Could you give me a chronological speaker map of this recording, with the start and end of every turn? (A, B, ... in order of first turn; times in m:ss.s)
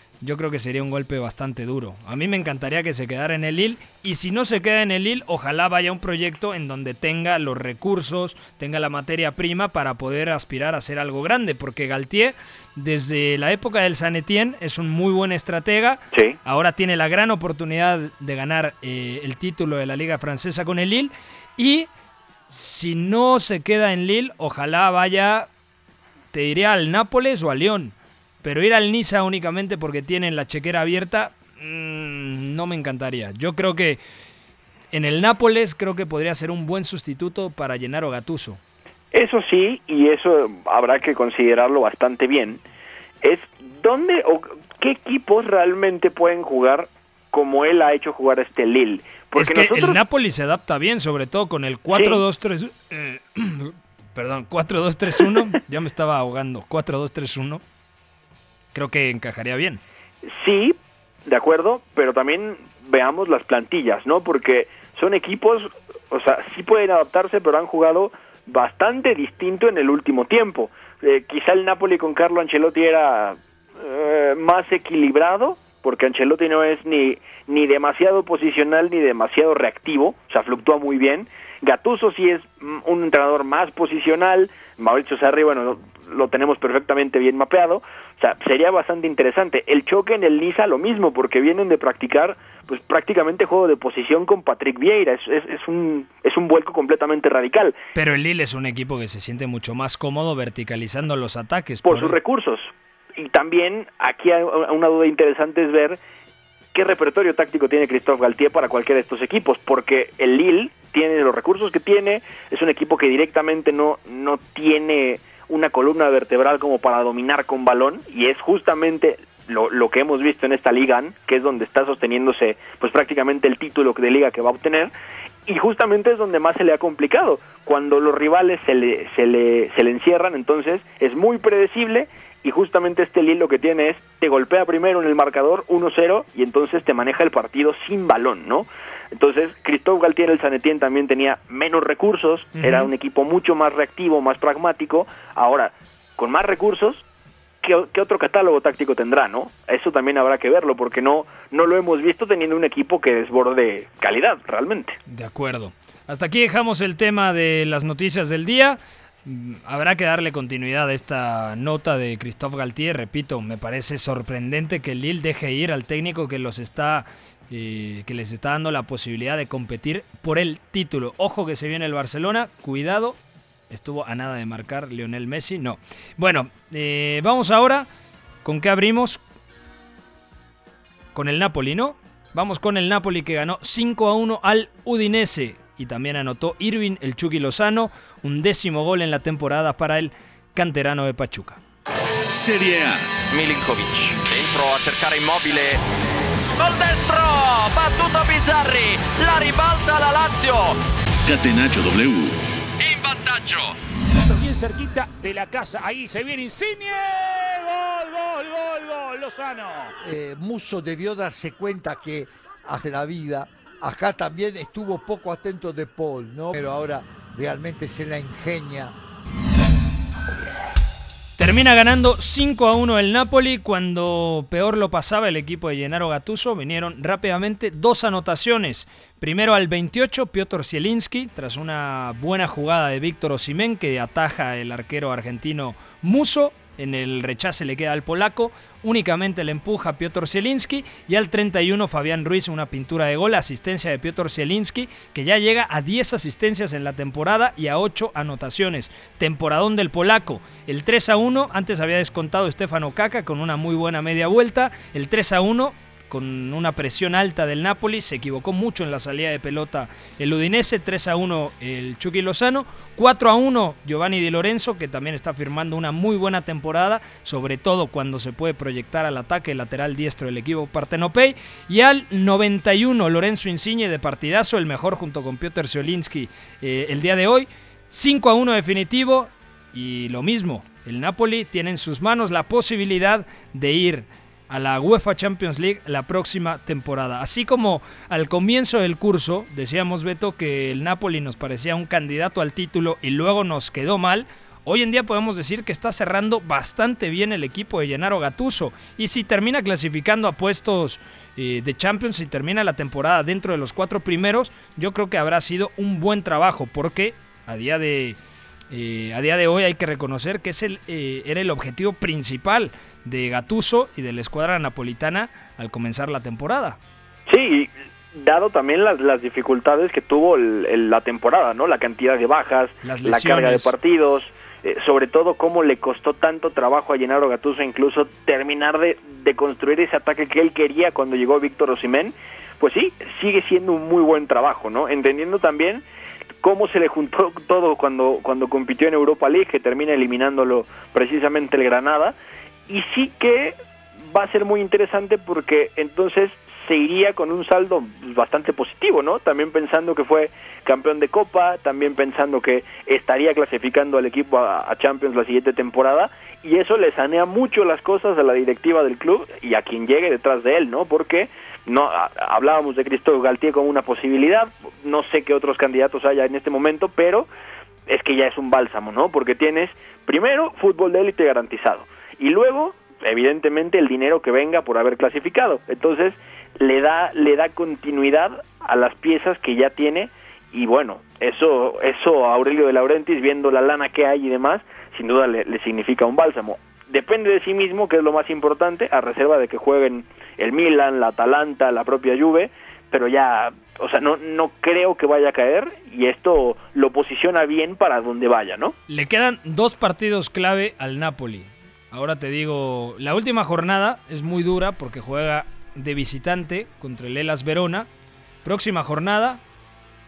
0:00.2-0:21.9 A
0:22.5-0:25.5 A
0:26.3-0:34.0 A
0:34.9-0:38.6 A
0:39.1-0:42.6 B
0:43.2-0:50.0 B
0:49.4-0:57.6 A
0:51.9-0:52.2 B
0:58.7-0:59.8 A
1:00.2-1:37.8 B
1:37.9-1:42.2 A
1:41.8-1:46.0 B
1:46.7-2:04.9 B
2:05.5-2:27.0 B
2:22.6-2:22.9 A
2:27.6-2:35.0 B
2:35.1-2:53.2 A
2:53.7-2:57.9 A
2:58.4-2:59.2 A
3:01.1-3:11.6 A
3:12.3-3:13.1 C
3:13.3-3:15.8 D
3:16.6-3:20.8 D
3:21.2-3:22.4 C
3:22.8-3:23.8 D
3:24.3-3:29.9 E
3:30.0-3:38.9 F
3:41.4-5:08.2 A
5:08.7-5:16.8 A
5:17.3-5:35.8 B
5:22.8-5:23.7 A
5:36.4-5:42.2 B
5:42.7-5:43.6 B
5:44.1-6:07.3 B
6:07.9-6:38.8 B
6:38.9-6:47.9 A
6:48.4-6:49.4 A